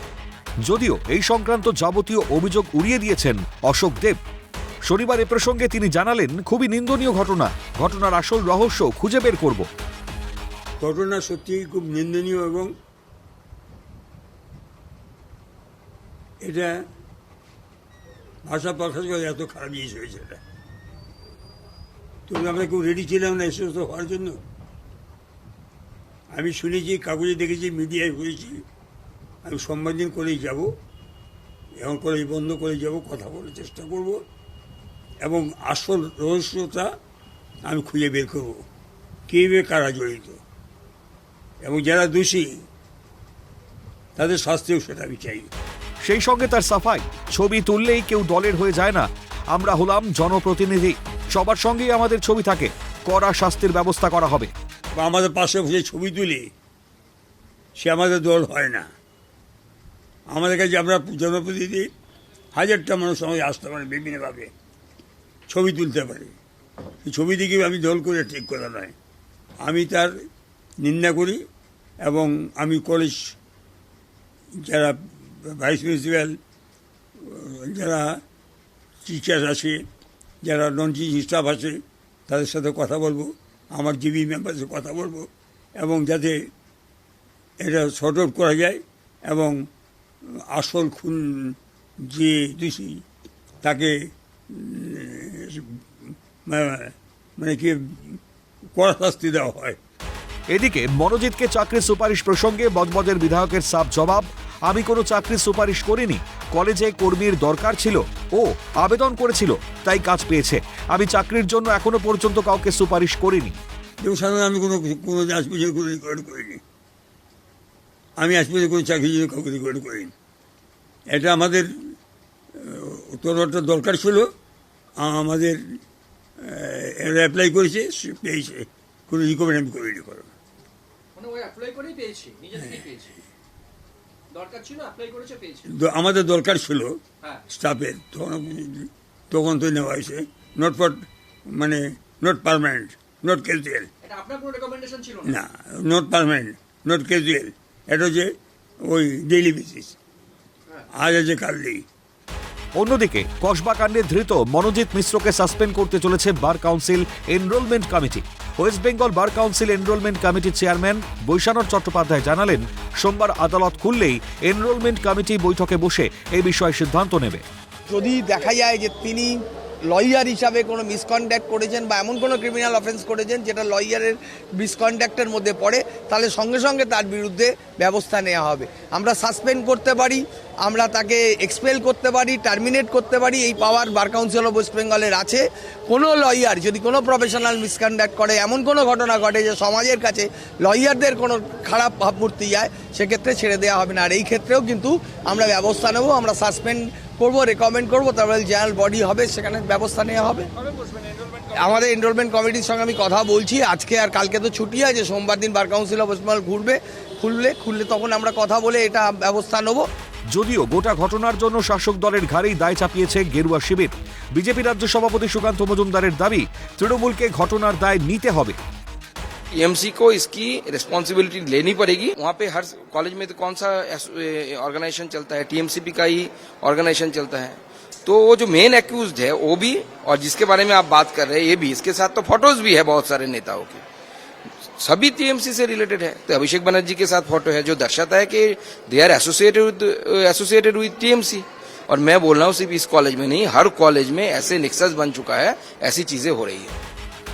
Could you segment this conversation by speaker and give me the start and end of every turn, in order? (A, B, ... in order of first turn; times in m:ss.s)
0:00.7-0:04.2 A
0:04.9-0:09.7 A
0:10.8-0:12.7 B
0:16.4-0:16.7 B
0:18.4-0:20.4 B
0:22.3-0:24.4 B
0:26.3-0:28.6 B
0:29.5-0:30.8 B
0:31.8-0:34.2 B
0:35.2-0:36.9 B
0:37.6-0:38.7 B
0:39.3-0:40.4 B
0:41.6-0:42.5 B
0:44.2-0:45.5 B
0:46.0-0:54.5 A
0:55.0-0:56.5 B
0:57.8-0:58.9 B
1:00.3-1:01.9 B
1:02.5-1:04.5 B
1:05.5-1:06.4 B
1:07.0-1:09.0 B
1:09.6-1:10.1 B
1:10.8-1:11.4 B
1:12.0-1:13.3 B
1:14.7-1:16.4 B
1:17.2-1:18.2 B
1:19.0-1:19.8 B
1:20.4-1:26.5 B
1:27.6-1:29.6 B
1:30.5-1:31.6 B
1:32.1-1:33.0 B
1:33.6-1:33.9 B
1:34.5-1:35.8 B
1:36.5-1:38.2 B
1:38.8-1:39.8 B
1:40.5-1:53.6 A
1:54.0-1:56.6 B
1:58.2-2:00.1 B
2:01.1-2:01.7 B
2:02.6-2:04.3 B
2:05.0-2:05.6 B
2:06.4-2:10.3 B
2:11.2-2:13.2 C
2:14.3-2:15.7 C
2:15.7-2:23.9 B
2:24.0-2:25.4 C
2:25.2-2:30.0 B
2:30.9-2:31.8 B
2:32.8-2:47.4 A
2:47.9-3:20.5 D
3:21.5-3:29.9 D
3:30.3-3:38.6 A
3:39.5-3:53.8 E
3:54.8-4:06.8 E